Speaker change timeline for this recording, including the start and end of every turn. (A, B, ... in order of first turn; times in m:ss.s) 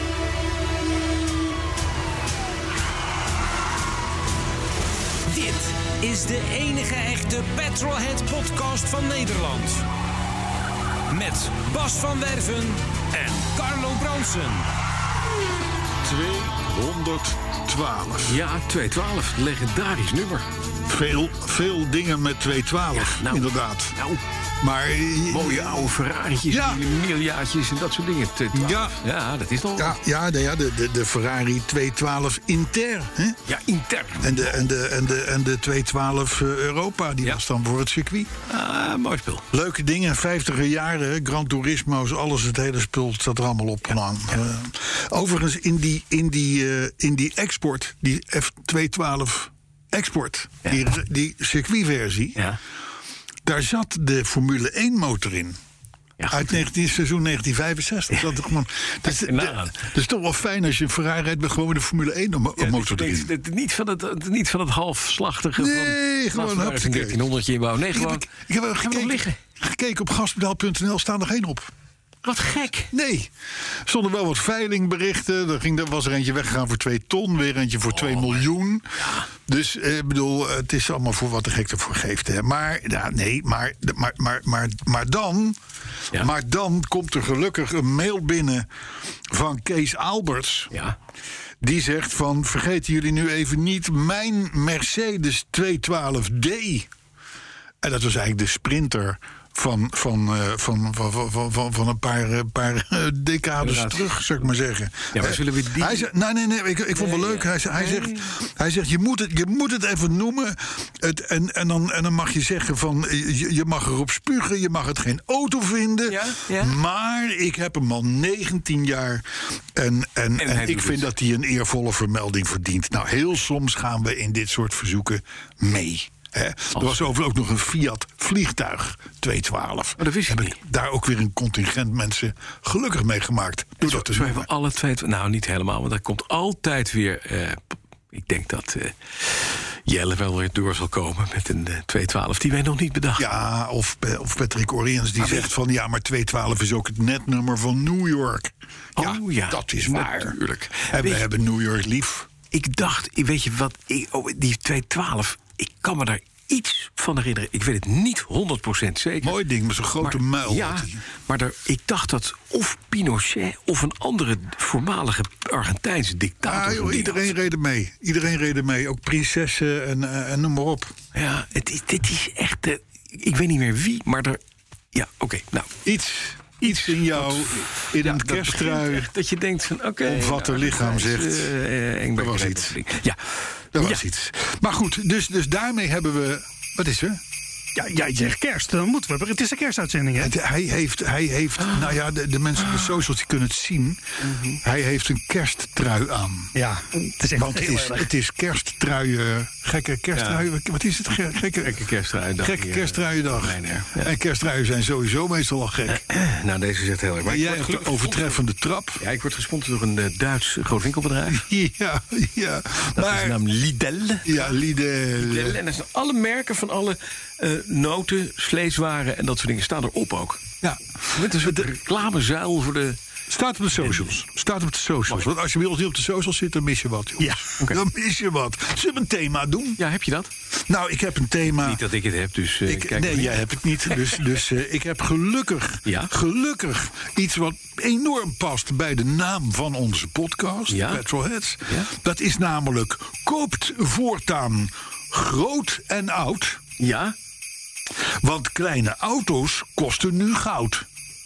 0:05.3-0:09.8 A
0:11.1-0:14.7 A
0:16.0-0:18.4 B
0:18.3-0:20.5 C
0:20.9-0:24.0 B
0:22.9-0:24.2 C
0:24.6-0:25.9 B
0:25.3-0:30.0 C
0:26.5-0:26.8 B
0:28.5-0:29.0 B
0:29.8-0:33.4 B
0:33.4-0:34.5 C
0:34.2-0:38.3 B
0:38.5-0:39.5 C
0:39.5-0:52.4 B
0:53.4-0:55.6 B
0:56.2-0:56.6 C
0:56.3-1:03.3 B
0:59.0-0:59.8 C
1:02.6-1:08.2 C
1:05.6-1:07.3 B
1:07.9-1:11.7 B
1:08.8-1:09.4 C
1:12.2-1:12.9 C
1:12.9-1:13.3 B
1:13.8-1:25.6 B
1:17.9-1:19.3 C
1:26.1-1:28.7 B
1:29.3-1:30.7 B
1:31.6-1:36.9 B
1:37.8-2:14.5 B
1:43.6-1:44.2 C
1:45.1-1:46.1 C
1:46.9-1:48.4 C
1:56.1-1:56.8 C
2:00.4-2:01.1 C
2:10.0-2:10.6 C
2:13.8-2:23.3 C
2:23.2-2:32.3 B
2:25.2-2:25.5 C
2:29.0-2:31.3 C
2:32.5-2:39.4 C
2:39.2-2:41.0 B
2:40.0-2:47.3 C
2:46.4-2:50.9 B
2:51.1-2:54.4 C
2:54.9-2:55.7 C
2:55.8-2:59.1 B
2:56.6-3:04.0 C
3:00.0-3:01.5 B
3:02.2-3:02.8 B
3:03.7-3:07.2 B
3:07.8-3:10.3 D
3:10.2-3:16.5 B
3:11.6-3:11.9 C
3:14.2-3:14.6 C
3:16.5-3:18.1 D
3:17.4-3:21.9 B
3:20.1-3:20.4 C
3:21.6-3:24.1 C
3:22.4-3:26.0 B
3:25.9-3:28.4 C
3:27.2-3:29.0 B
3:29.0-3:31.4 C
3:31.3-3:33.4 B
3:33.0-3:34.6 C
3:34.2-3:35.6 B
3:35.2-3:40.4 C
3:40.6-3:41.7 B
3:41.1-3:43.0 C
3:43.3-3:49.8 B
3:49.8-3:50.3 C
3:50.7-3:51.8 B
3:51.6-3:53.4 C
3:52.6-4:06.6 B
3:55.8-3:56.1 C
4:00.7-4:01.0 C
4:06.8-4:07.1 C
4:08.2-4:10.9 B